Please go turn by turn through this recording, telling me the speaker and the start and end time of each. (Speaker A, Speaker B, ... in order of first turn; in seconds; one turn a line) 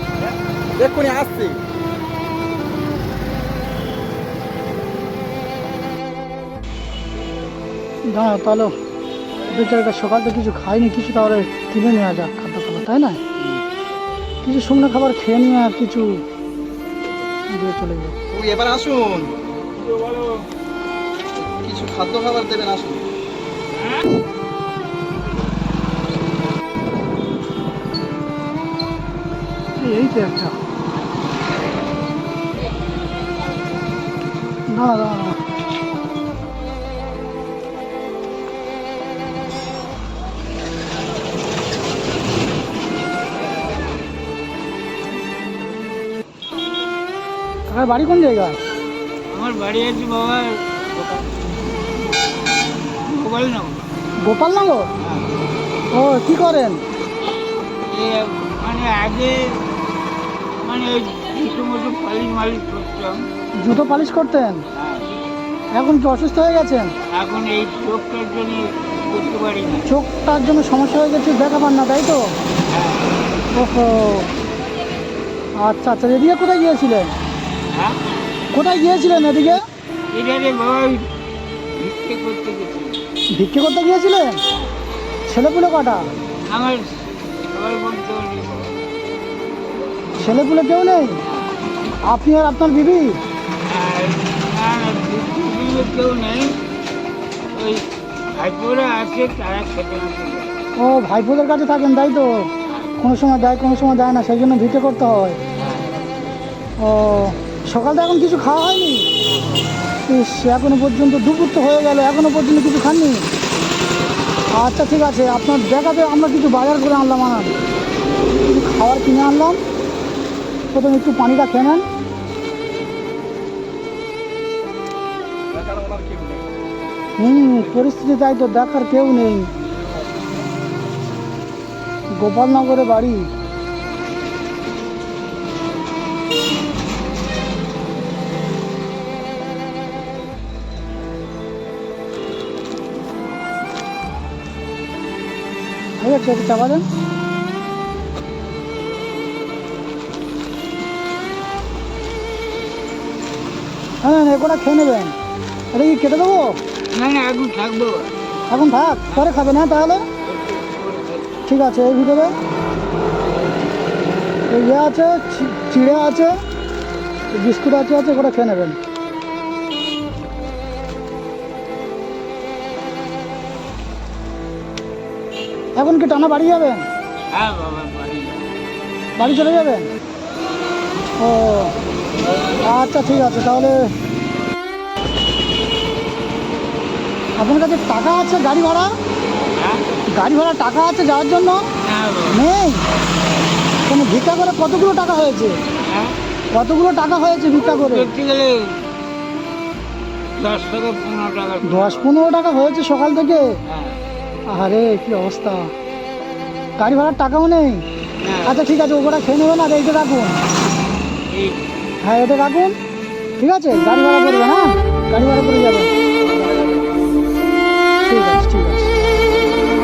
Speaker A: 1.0-1.6
Speaker B: 8.1-8.8
Speaker B: 9.4-13.2
Speaker B: 14.4-16.2
Speaker B: 17.5-18.2
Speaker A: 18.5-19.3
Speaker C: 20.0-20.4
Speaker A: 21.6-22.9
Speaker B: 29.8-30.6
Speaker B: 34.7-35.4
Speaker B: 47.7-48.6
Speaker C: 49.3-51.3
Speaker C: 53.0-53.8
Speaker B: 54.2-54.9
Speaker C: 55.0-55.3
Speaker B: 55.9-56.8
Speaker C: 57.9-59.6
Speaker C: 60.6-63.3
Speaker B: 63.6-64.6
Speaker C: 64.8-65.2
Speaker B: 65.7-66.9
Speaker C: 67.1-69.9
Speaker B: 69.9-72.3
Speaker C: 72.7-73.1
Speaker B: 73.5-74.3
Speaker B: 75.6-77.1
Speaker C: 77.7-78.1
Speaker B: 78.5-79.6
Speaker C: 80.1-81.1
Speaker C: 81.8-83.0
Speaker B: 83.3-84.4
Speaker C: 84.5-84.8
Speaker B: 85.3-86.1
Speaker C: 86.5-88.8
Speaker B: 90.2-91.2
Speaker C: 91.2-91.5
Speaker B: 92.0-93.2
Speaker C: 93.7-96.6
Speaker C: 97.5-100.6
Speaker B: 100.8-105.4
Speaker C: 102.7-102.9
Speaker C: 105.6-105.9
Speaker B: 106.8-109.1
Speaker C: 109.3-109.6
Speaker B: 110.1-113.3
Speaker B: 114.5-117.6
Speaker B: 118.4-119.6
Speaker B: 120.7-121.9
Speaker A: 125.7-126.2
Speaker B: 127.2-129.5
Speaker B: 132.1-133.3
Speaker B: 146.0-146.9
Speaker B: 154.0-155.2
Speaker B: 155.7-156.6
Speaker C: 156.9-158.1
Speaker B: 158.5-160.1
Speaker C: 159.1-159.5
Speaker C: 160.2-161.4
Speaker B: 161.5-162.4
Speaker B: 164.5-166.3
Speaker B: 167.3-168.8
Speaker B: 175.8-176.9
Speaker C: 177.3-178.5
Speaker B: 179.2-179.9
Speaker B: 181.2-181.8
Speaker B: 182.6-183.9
Speaker B: 187.4-188.9
Speaker C: 189.6-189.8
Speaker B: 190.1-191.7
Speaker C: 191.8-192.4
Speaker B: 192.3-192.9
Speaker B: 193.8-195.6
Speaker C: 195.8-196.2
Speaker B: 196.5-198.1
Speaker C: 197.5-198.9
Speaker C: 200.3-202.1
Speaker B: 201.6-203.5
Speaker C: 203.7-204.0
Speaker B: 204.5-205.7
Speaker B: 206.8-207.9
Speaker C: 208.2-208.7
Speaker B: 208.4-210.4
Speaker C: 211.3-211.7
Speaker B: 212.0-212.8
Speaker B: 213.4-215.9
Speaker B: 218.1-218.9